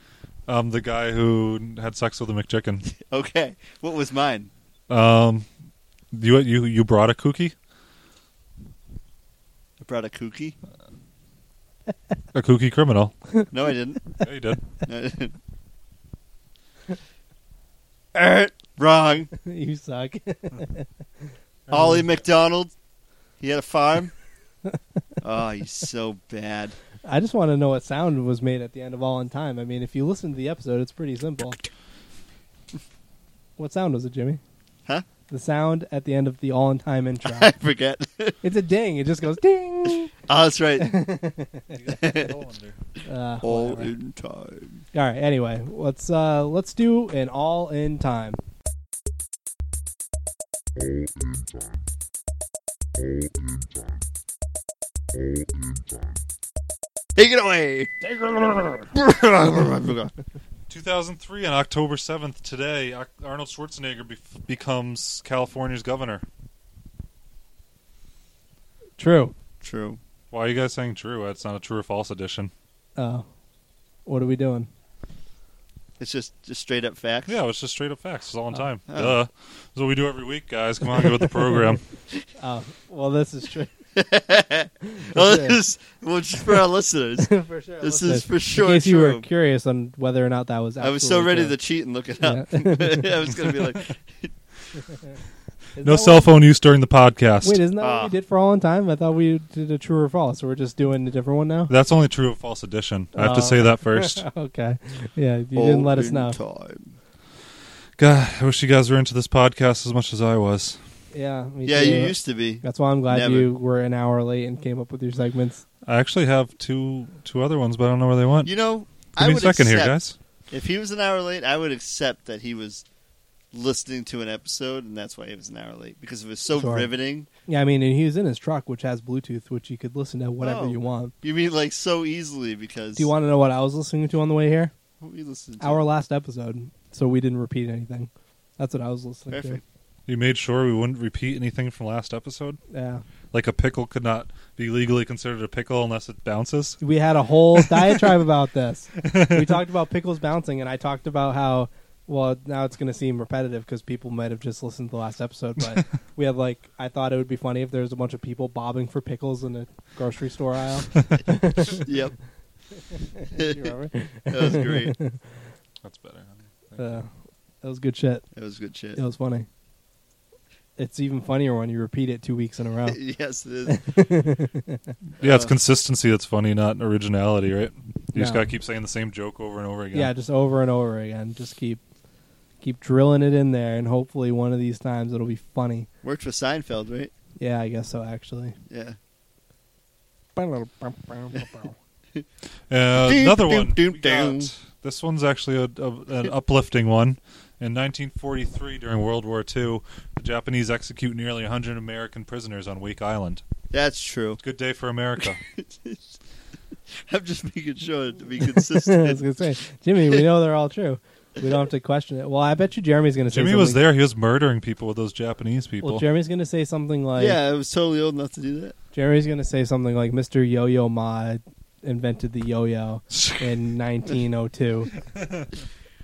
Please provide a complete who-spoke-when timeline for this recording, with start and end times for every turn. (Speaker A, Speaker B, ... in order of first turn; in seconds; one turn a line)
Speaker A: 0.5-2.9
Speaker B: 2.9-4.5
Speaker A: 4.9-5.5
Speaker A: 6.1-7.5
Speaker B: 9.8-10.6
Speaker A: 12.3-13.1
Speaker B: 13.5-14.2
Speaker A: 14.2-14.6
Speaker B: 14.8-15.4
Speaker B: 18.1-19.3
Speaker C: 19.3-20.9
Speaker B: 21.7-22.7
Speaker A: 21.8-22.0
Speaker B: 23.4-24.1
Speaker B: 25.2-26.8
Speaker C: 27.1-31.6
Speaker C: 33.6-34.4
Speaker C: 35.3-37.5
Speaker B: 37.2-38.4
Speaker C: 38.4-40.1
Speaker B: 40.2-41.0
Speaker C: 40.8-41.8
Speaker A: 41.7-42.8
Speaker B: 41.9-42.4
Speaker C: 43.0-43.9
Speaker B: 43.4-44.8
Speaker C: 44.9-48.4
Speaker B: 57.2-60.1
Speaker A: 60.7-66.2
Speaker C: 69.0-69.3
Speaker B: 69.6-70.0
Speaker A: 70.3-72.5
Speaker C: 73.0-73.2
Speaker C: 74.1-74.7
Speaker B: 76.0-77.3
Speaker A: 77.3-81.8
Speaker B: 78.9-79.2
Speaker C: 82.4-83.7
Speaker B: 84.0-87.3
Speaker C: 84.8-85.6
Speaker C: 87.2-91.6
Speaker B: 87.8-89.3
Speaker B: 90.8-94.3
Speaker C: 92.2-93.1
Speaker C: 95.8-96.3
Speaker A: 95.8-97.6
Speaker C: 97.4-101.7
Speaker B: 97.8-98.1
Speaker A: 101.7-104.2
Speaker C: 103.2-106.4
Speaker B: 105.5-107.0
Speaker A: 108.0-110.8
Speaker C: 111.1-115.6
Speaker B: 111.7-113.5
Speaker A: 115.8-118.5
Speaker B: 118.5-120.0
Speaker A: 119.2-120.2
Speaker B: 120.5-122.8
Speaker B: 123.5-127.3
Speaker C: 126.5-126.9
Speaker C: 127.5-131.1
Speaker B: 130.4-133.1
Speaker C: 133.0-134.7
Speaker B: 135.0-135.8
Speaker C: 135.6-139.6
Speaker B: 139.3-139.6
Speaker A: 140.1-142.6
Speaker C: 142.7-143.0
Speaker A: 143.3-146.8
Speaker C: 146.8-161.9
Speaker A: 147.6-148.0
Speaker A: 149.0-149.5
Speaker B: 161.6-162.2
Speaker C: 162.9-165.2
Speaker B: 163.3-163.7
Speaker B: 164.3-164.9
Speaker A: 165.8-166.8
Speaker C: 166.8-168.2
Speaker B: 168.3-169.0
Speaker C: 169.0-169.5
Speaker C: 170.8-173.0
Speaker B: 172.9-174.0
Speaker C: 173.7-174.9
Speaker B: 175.2-175.5
Speaker A: 175.2-180.1
Speaker C: 178.1-178.5
Speaker C: 179.9-181.8
Speaker C: 182.6-185.9
Speaker B: 186.0-187.1
Speaker C: 187.4-188.6
Speaker B: 188.7-189.0
Speaker C: 190.4-191.7
Speaker A: 192.7-203.4
Speaker B: 192.9-194.5
Speaker B: 203.7-204.4
Speaker A: 204.4-205.4
Speaker B: 205.2-206.2
Speaker B: 206.9-209.5
Speaker C: 208.6-213.8
Speaker A: 213.3-216.1
Speaker C: 215.8-217.4
Speaker B: 217.2-218.8
Speaker C: 218.9-224.9
Speaker A: 223.1-223.4
Speaker A: 225.2-225.5